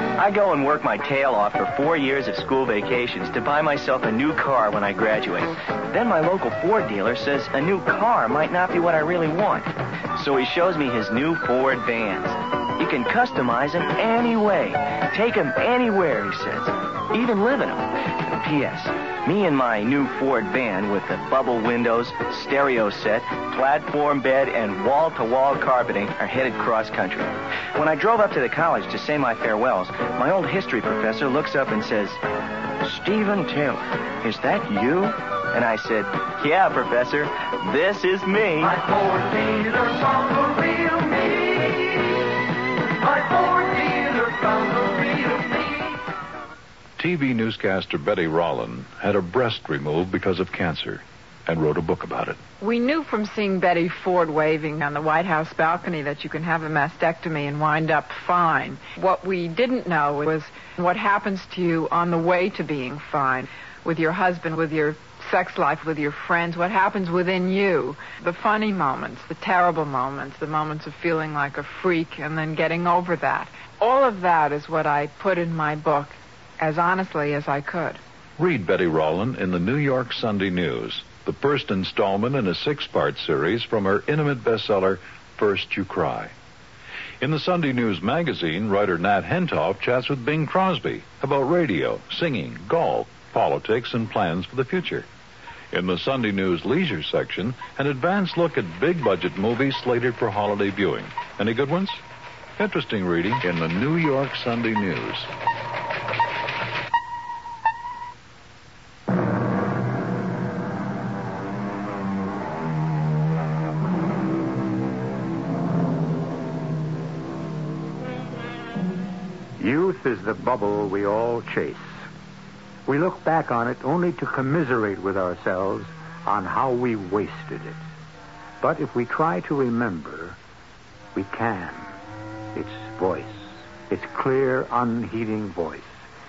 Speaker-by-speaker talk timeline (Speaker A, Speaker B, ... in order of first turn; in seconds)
Speaker A: 0.2-32.2, 32.8-38.8
Speaker B: 38.6-42.3, 43.0-46.0
Speaker C: 47.0-52.4, 78.4-86.3, 87.2-95.1, 95.7-102.0, 102.6-105.3
Speaker D: 52.6-78.0
Speaker E: 119.6-121.9, 122.9-127.8, 128.6-130.4, 131.1-131.9, 132.5-135.9